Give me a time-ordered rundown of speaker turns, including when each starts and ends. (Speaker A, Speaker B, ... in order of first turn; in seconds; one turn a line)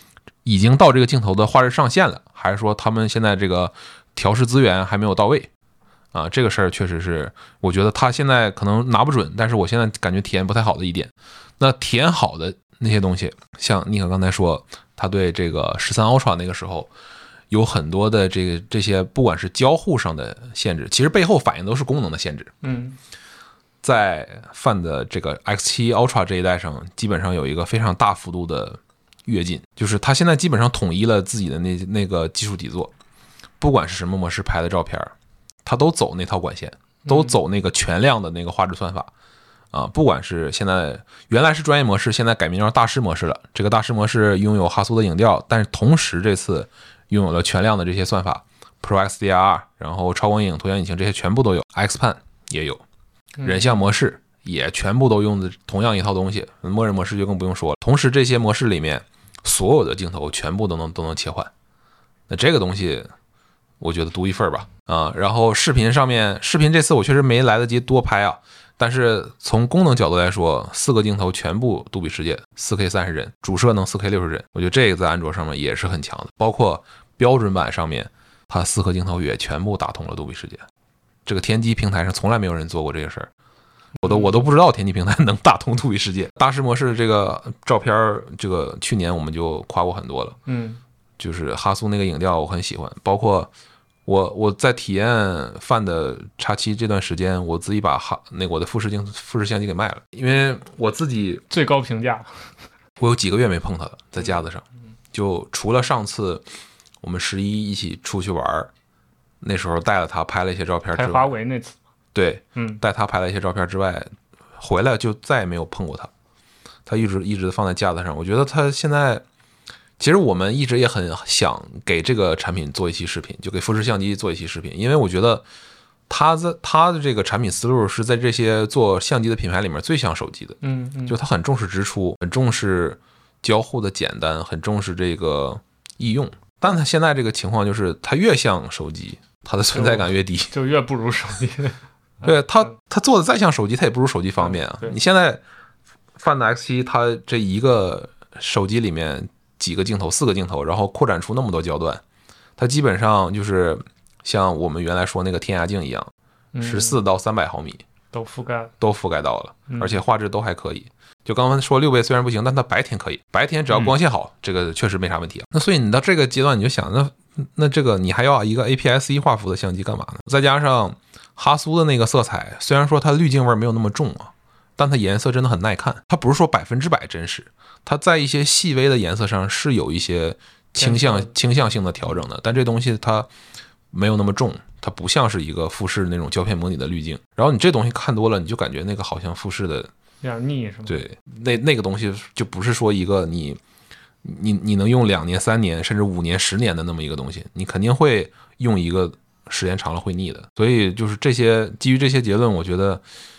Speaker A: 0.4-5.5
Speaker A: 6.1-16.9
Speaker A: 17.5-22.5
Speaker B: 22.6-22.9
Speaker A: 23.8-32.9
Speaker A: 33.6-35.1
Speaker A: 35.6-39.1
Speaker B: 37.1-37.3
Speaker A: 39.7-52.8
Speaker B: 53.4-53.8
Speaker A: 53.4-61.5
Speaker A: 62.3-63.1
Speaker A: 63.8-80.6
Speaker A: 81.2-83.3
Speaker B: 84.0-84.4
Speaker A: 84.0-90.4
Speaker B: 90.5-90.8
Speaker A: 91.2-93.5
Speaker A: 94.0-101.4
Speaker B: 101.5-102.3
Speaker A: 103.0-106.4
Speaker A: 107.0-108.7
Speaker A: 109.4-111.3
Speaker B: 110.9-111.8
Speaker A: 112.1-116.1
Speaker B: 112.5-112.8
Speaker A: 116.9-119.2
Speaker A: 120.0-125.4
Speaker A: 126.1-140.5
Speaker B: 130.6-131.2
Speaker B: 139.7-142.7
Speaker A: 142.2-145.4
Speaker B: 144.4-144.9
Speaker A: 146.2-152.0
Speaker A: 152.6-157.8
Speaker B: 156.6-157.0
Speaker B: 158.1-158.7
Speaker A: 158.8-183.3
Speaker B: 159.7-160.0
Speaker B: 180.8-181.3
Speaker A: 183.9-189.9
Speaker B: 190.2-190.9
Speaker A: 190.9-193.6
Speaker A: 194.2-203.0